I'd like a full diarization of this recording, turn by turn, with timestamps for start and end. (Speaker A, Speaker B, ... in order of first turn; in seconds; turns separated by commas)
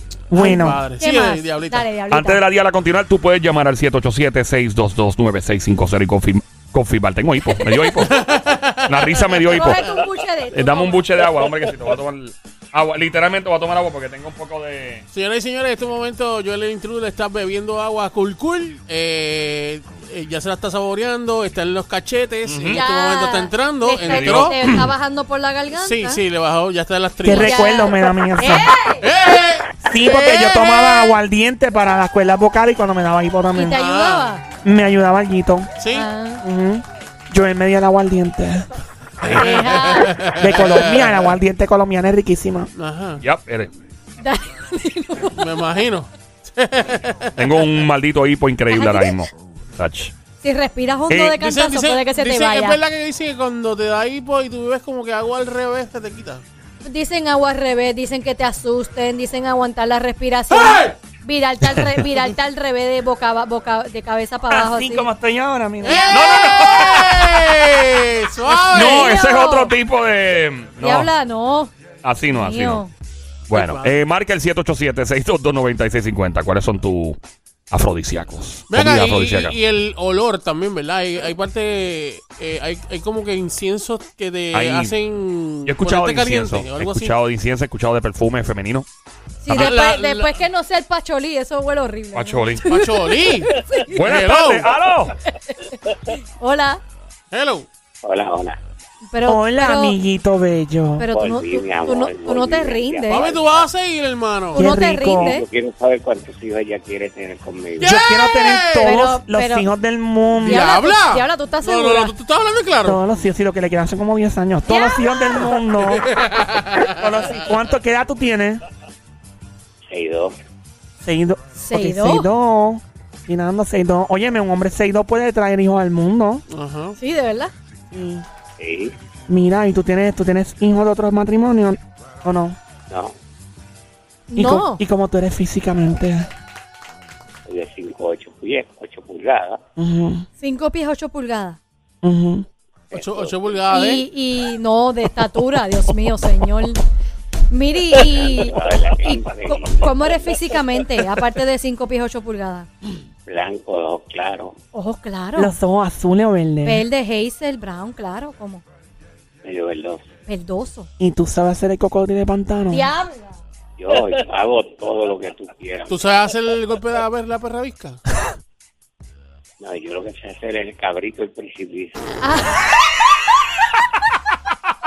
Speaker A: 0.3-0.8, Speaker B: 0.3-1.9, Speaker C: 1.0-2.4, Speaker D: 2.1-8.2, Speaker B: 7.5-9.7, Speaker D: 8.8-10.0, Speaker C: 9.5-11.1, Speaker D: 10.5-15.0, Speaker B: 15.1-24.7, Speaker D: 22.4-22.8, Speaker C: 22.7-26.2, Speaker D: 24.0-24.9, Speaker B: 25.7-27.6, Speaker A: 27.2-28.7, Speaker C: 27.2-29.1, Speaker B: 29.0-30.7, Speaker A: 29.8-33.8, Speaker C: 33.5-34.4, Speaker B: 33.7-34.4, Speaker A: 34.6-35.7, Speaker B: 35.8-36.1, Speaker C: 35.9-36.4, Speaker A: 36.4-38.6, Speaker C: 39.2-40.2, Speaker B: 39.3-41.1, Speaker A: 40.4-42.7, Speaker B: 42.8-43.2, Speaker D: 43.2-43.7, Speaker C: 44.2-45.5, Speaker B: 45.4-47.6, Speaker D: 47.4-50.1, Speaker C: 48.7-49.3, Speaker C: 50.4-52.8, Speaker D: 51.1-51.4, Speaker B: 51.4-56.4, Speaker C: 56.8-65.1, Speaker B: 60.5-61.0, Speaker A: 64.5-66.1, Speaker B: 65.8-69.2, Speaker D: 66.0-67.4, Speaker D: 68.7-71.1, Speaker C: 68.7-69.7, Speaker C: 70.8-71.7, Speaker D: 72.0-72.8, Speaker C: 72.3-72.9, Speaker D: 73.5-77.2, Speaker B: 73.5-73.9, Speaker D: 77.7-79.6, Speaker B: 78.7-87.2, Speaker D: 84.5-85.0, Speaker D: 85.6-88.9, Speaker C: 89.4-94.0, Speaker D: 89.5-89.8, Speaker B: 89.5-90.4, Speaker D: 92.1-92.6, Speaker B: 92.7-94.7, Speaker D: 93.7-95.2, Speaker C: 95.3-96.8, Speaker B: 97.3-97.7, Speaker E: 98.0-98.6, Speaker C: 99.0-100.0, Speaker A: 99.2-101.1, Speaker C: 101.0-103.3, Speaker E: 101.1-103.7, Speaker B: 103.1-104.6, Speaker C: 104.5-105.5, Speaker A: 104.5-105.4, Speaker E: 105.1-108.0, Speaker B: 107.8-108.9, Speaker A: 107.8-110.7, Speaker C: 108.8-109.7, Speaker B: 110.4-113.0, Speaker C: 110.4-112.1, Speaker A: 112.8-116.1, Speaker C: 114.7-115.2, Speaker B: 116.0-116.9, Speaker A: 116.8-118.6, Speaker E: 119.9-120.3, Speaker A: 121.0-126.4, Speaker C: 121.6-122.3, Speaker B: 126.5-127.0, Speaker C: 127.0-127.5, Speaker A: 127.9-128.2, Speaker E: 128.6-128.9, Speaker A: 129.3-132.6, Speaker E: 132.9-133.2, Speaker C: 134.3-134.8, Speaker A: 134.3-136.3, Speaker E: 137.5-139.6, Speaker A: 139.8-140.3, Speaker C: 140.4-141.6, Speaker A: 142.0-142.4, Speaker E: 142.9-143.9, Speaker B: 142.9-144.1, Speaker C: 143.7-146.8, Speaker C: 147.5-152.7, Speaker E: 148.0-150.4, Speaker E: 153.2-154.5, Speaker C: 154.7-155.5, Speaker A: 155.3-156.8, Speaker C: 156.6-158.6, Speaker E: 159.4-160.0, Speaker C: 160.3-160.9, Speaker A: 161.0-162.9, Speaker C: 162.7-163.4, Speaker E: 163.8-166.1, Speaker B: 165.9-168.0, Speaker E: 169.6-172.1, Speaker C: 172.2-172.5